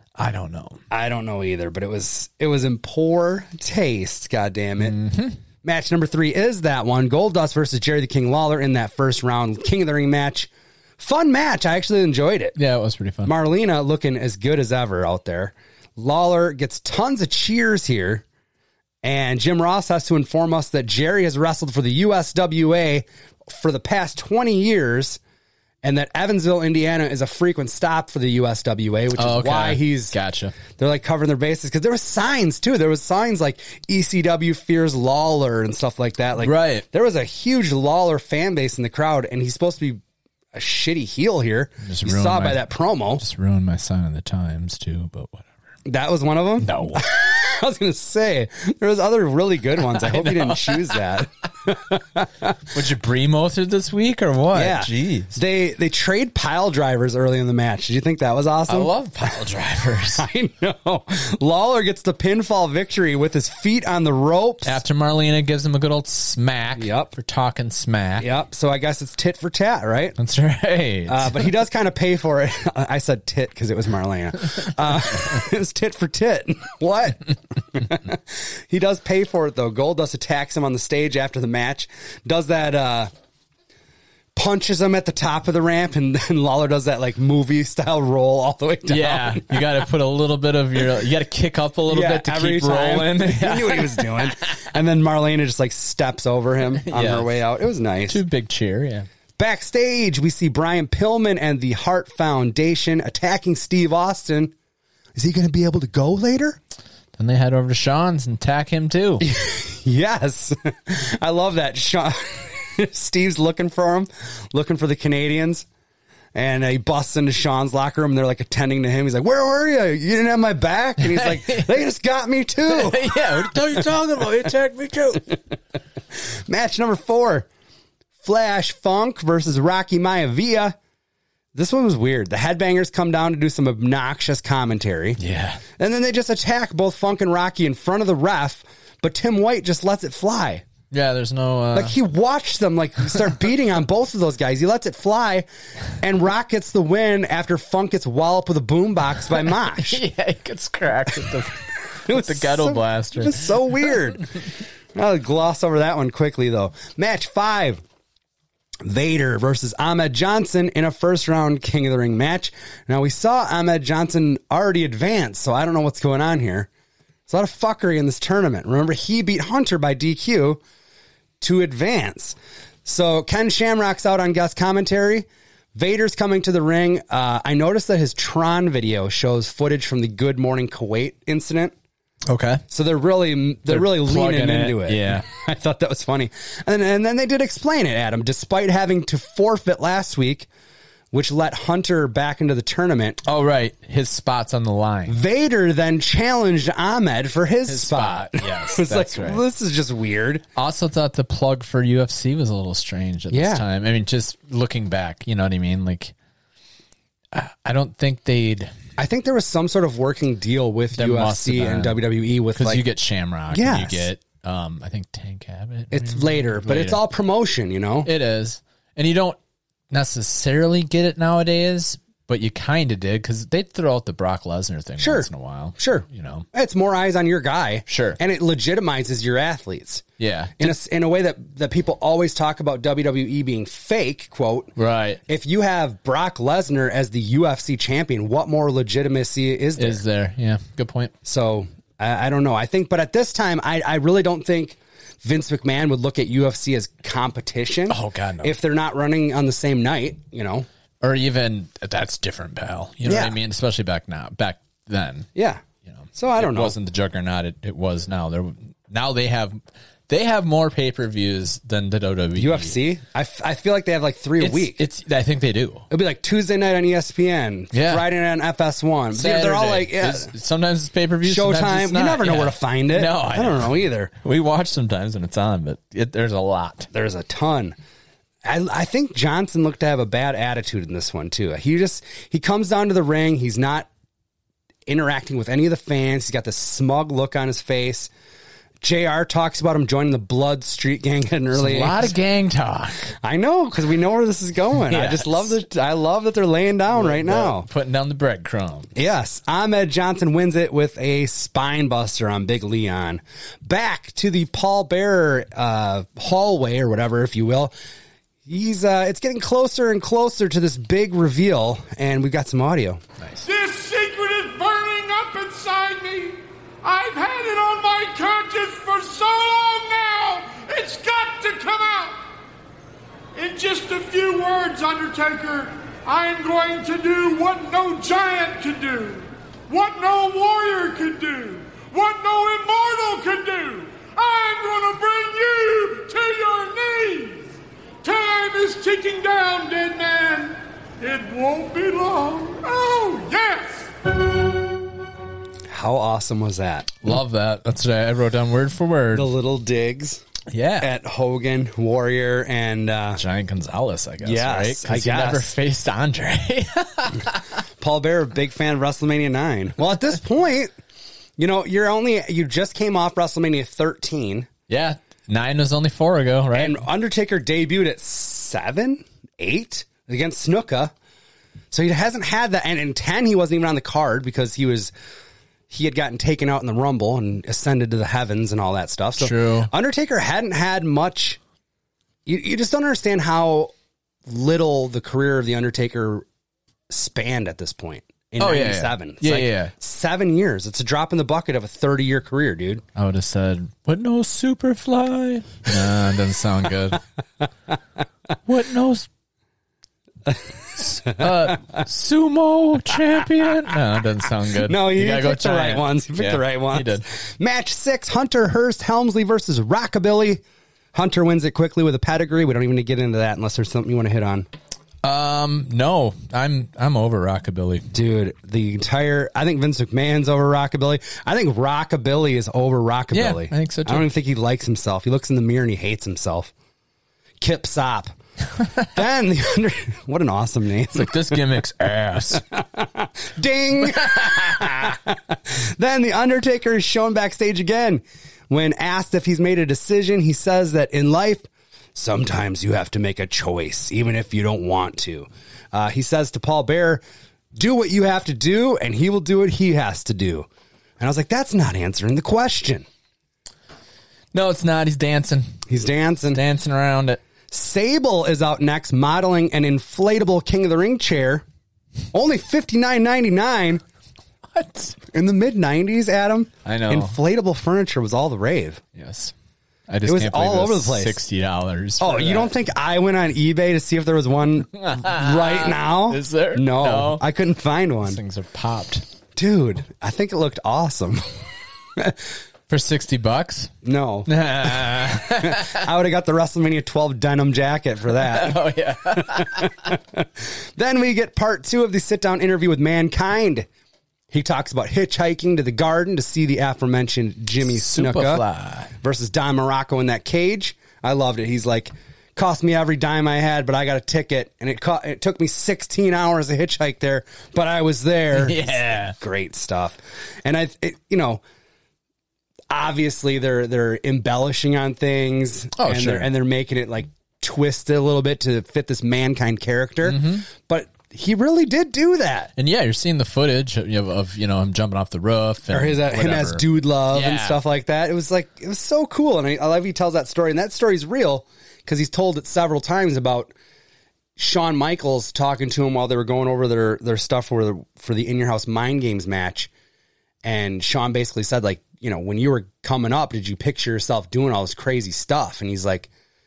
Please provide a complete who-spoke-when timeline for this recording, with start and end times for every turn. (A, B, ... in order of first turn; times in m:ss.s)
0:00.2-0:00.8 A
0:00.9-0:05.0 B
0:04.8-0:05.4 A
0:05.6-0:12.6 B
0:12.6-0:13.3 A
0:13.2-0:18.2 B
0:19.0-0:25.2 B
0:25.8-0:30.1 B
0:29.2-0:30.5 A
0:30.8-0:40.0 B
0:36.4-0:36.9 A
0:40.5-0:43.2 B
0:41.8-0:42.7 A
0:43.2-0:45.5 A
0:45.9-0:52.6 B
0:46.6-0:47.0 A
0:49.9-0:51.0 A
0:52.7-0:55.3 A
0:54.5-0:59.4 B
0:58.7-1:00.3 A
1:00.1-1:04.8 B
1:04.7-1:08.3 A
1:06.8-1:07.1 B
1:08.2-1:10.2 B
1:10.2-1:11.5 A
1:11.1-1:23.1 B
1:24.4-1:29.6 B
1:28.9-1:34.5 A
1:31.9-1:38.2 B
1:36.7-1:37.3 A
1:38.1-1:39.1 A
1:39.4-1:44.5 B
1:45.2-1:46.6 B
1:47.2-1:49.2 A
1:49.2-1:55.6 B
1:56.3-2:03.1 B
2:01.0-2:01.8 A
2:02.7-2:05.2 A
2:06.5-2:07.5 B
2:08.2-2:10.8 B
2:11.6-2:15.2 B
2:15.2-2:15.6 A
2:15.8-2:20.6 B
2:20.9-2:22.0 A
2:21.7-2:30.0 B
2:29.3-2:33.5 A
2:32.0-2:37.8 B
2:38.8-2:46.7 B
2:47.3-2:50.6 B
2:51.4-3:01.7 B
3:02.3-3:02.6 A
3:02.7-3:10.5 B
3:03.7-3:05.2 A
3:11.1-3:13.2 B
3:13.2-3:15.2 A
3:15.1-3:20.4 B
3:17.7-3:19.4 A
3:20.6-3:26.1 A
3:23.3-3:23.6 B
3:27.3-3:28.7 A
3:29.0-3:32.9 B
3:30.9-3:32.0 A
3:32.6-3:37.0 A
3:33.5-3:34.1 B
3:35.9-3:38.1 B
3:38.0-3:39.4 A
3:39.9-3:46.5 A
3:45.0-3:50.0 B
3:47.9-3:48.2 A
3:50.2-3:50.8 A
3:50.6-3:54.8 B
3:54.8-3:55.2 A
3:55.3-4:00.0 B
3:59.8-4:01.1 A
4:01.2-4:10.7 B
4:07.9-4:08.5 A
4:11.0-4:15.3 A
4:13.0-4:13.4 B
4:15.4-4:15.6 B
4:15.9-4:19.6 A
4:16.2-4:16.8 B
4:20.1-4:22.8 A
4:22.4-4:24.8 B
4:24.4-4:25.9 A
4:25.9-4:30.3 B
4:27.7-4:28.0 A
4:29.1-4:36.9 A
4:31.2-4:34.1 B
4:36.9-4:37.8 B
4:38.4-4:43.9 B
4:44.9-4:48.1 B
4:48.8-4:52.1 B
4:51.5-4:53.1 A
4:53.2-4:57.7 B
4:54.9-4:55.5 A
4:56.9-4:58.9 A
4:59.0-5:07.7 B
5:08.5-5:13.0 B
5:13.2-5:13.5 A
5:13.4-5:22.2 C
5:23.4-5:37.5 C
5:38.0-5:43.9 C
5:45.7-5:46.9 B
5:47.0-5:49.3 A
5:49.1-5:50.2 B
5:50.5-5:50.9 A
5:50.8-5:53.2 B
5:53.2-5:57.5 A
5:54.2-5:55.5 B
5:57.8-6:00.7 B
6:01.4-6:04.5 B
6:04.7-6:06.8 A
6:06.5-6:10.9 B
6:11.7-6:14.9 B
6:15.7-6:21.4 B
6:19.2-6:19.7 A
6:22.3-6:23.7 B
6:24.3-6:26.3 B
6:26.9-6:32.8 B
6:28.4-6:29.7 A
6:33.0-6:37.0 A
6:38.5-6:39.1 A
6:40.8-6:47.0 A
6:44.6-6:50.4 B
6:50.9-6:54.5 B
6:55.0-6:57.9 A
6:57.9-7:06.5 B
7:03.1-7:04.1 A
7:07.4-7:08.1 B
7:08.8-7:11.4 B
7:10.9-7:12.4 A
7:12.5-7:27.0 B
7:13.9-7:14.8 A
7:27.6-7:30.5 B
7:31.0-7:32.9 B
7:34.3-7:35.6 A
7:35.7-7:36.4 B
7:36.3-7:37.2 A
7:37.5-7:41.4 B
7:42.1-7:43.8 B
7:44.5-7:45.0 A
7:45.1-7:48.8 B
7:46.6-7:47.2 A
7:49.0-7:49.3 A
7:49.9-7:52.5 A
7:50.0-7:51.2 B
7:52.0-7:58.2 B
7:54.8-7:57.2 A
7:58.0-7:59.0 A
7:59.4-8:01.2 B
8:02.7-8:03.7 A
8:03.8-8:08.6 B
8:04.3-8:05.9 A
8:08.1-8:09.7 A
8:09.1-8:13.7 B
8:14.3-8:18.4 B
8:17.7-8:18.9 A
8:19.0-8:31.4 B
8:28.3-8:29.2 A
8:32.7-8:42.5 B
8:35.8-8:36.3 A
8:40.0-8:40.5 A
8:42.6-8:47.6 A
8:45.7-8:53.5 B
8:54.4-8:59.7 B
9:00.4-9:06.1 B